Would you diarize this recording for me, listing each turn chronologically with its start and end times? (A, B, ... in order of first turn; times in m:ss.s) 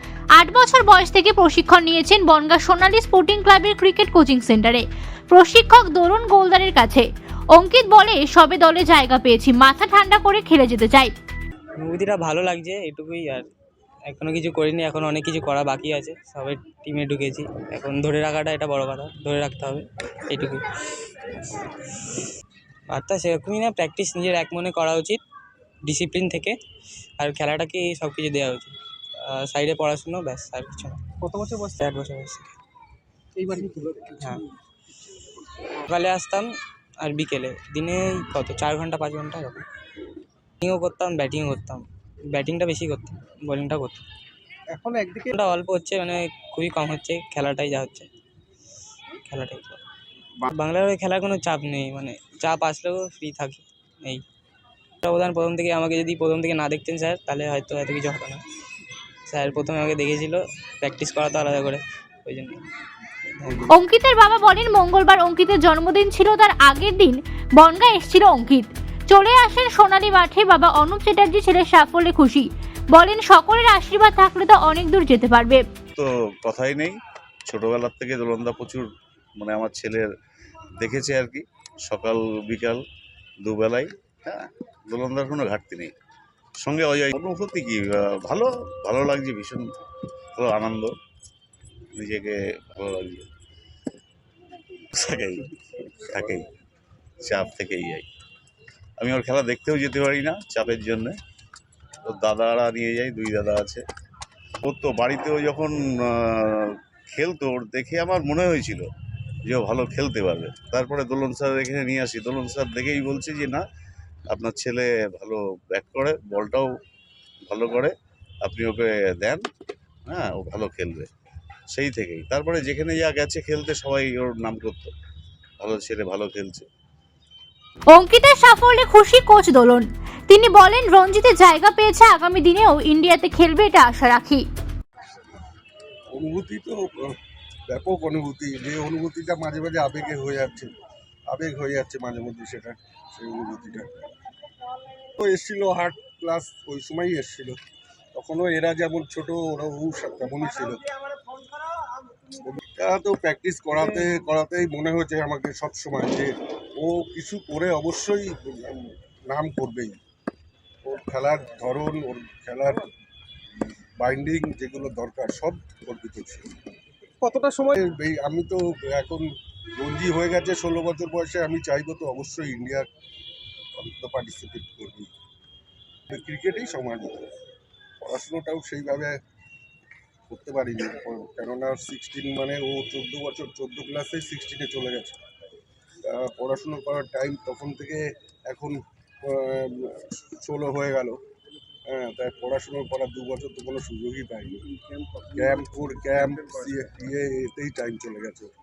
0:00.4-0:11.1 A
0:11.8-0:13.5 B
0:14.1-0:20.7 B
0:22.9-0:25.2 B
0:25.8-0:26.6 B
0:27.2-0:31.0 B
0:31.2-0:31.8 C
0:31.6-0:32.5 B
0:33.4-0:34.4 C
0:34.2-0:34.4 B
0:35.8-0:39.7 B
0:40.6-0:44.0 B
0:44.7-0:45.4 C
0:45.3-0:48.1 B
0:49.2-0:49.8 B
0:50.4-0:54.2 B
0:55.0-0:58.4 B
0:59.2-1:02.6 B
1:03.4-1:03.7 B
1:03.7-1:15.6 A
1:15.9-1:16.9 D
1:17.5-1:20.1 D
1:20.8-1:22.8 D
1:23.4-1:25.9 D
1:26.6-1:29.7 D
1:30.3-1:30.9 D
1:31.9-1:33.3 D
1:34.9-1:36.5 D
1:37.2-1:38.0 D
1:39.0-1:41.2 D
1:42.0-1:43.8 D
1:44.6-1:48.9 D
1:49.4-1:53.6 D
1:54.3-1:56.7 D
1:57.4-1:59.4 D
2:00.0-2:01.1 D
2:01.7-2:04.9 D
2:05.6-2:06.7 D
2:07.9-2:14.4 A
2:16.1-2:17.2 E
2:17.7-2:20.7 E
2:21.3-2:23.9 E
2:25.2-2:27.6 E
2:28.1-2:30.8 E
2:32.3-2:40.0 E
2:40.8-2:42.9 E
2:44.0-2:46.5 E
2:47.2-2:47.8 C
2:47.7-2:52.9 E
2:53.8-2:55.1 E
2:56.1-2:57.3 E
2:58.0-2:59.2 E
3:00.3-3:05.2 E
3:06.0-3:11.2 E
3:11.9-3:14.6 E
3:15.3-3:18.5 E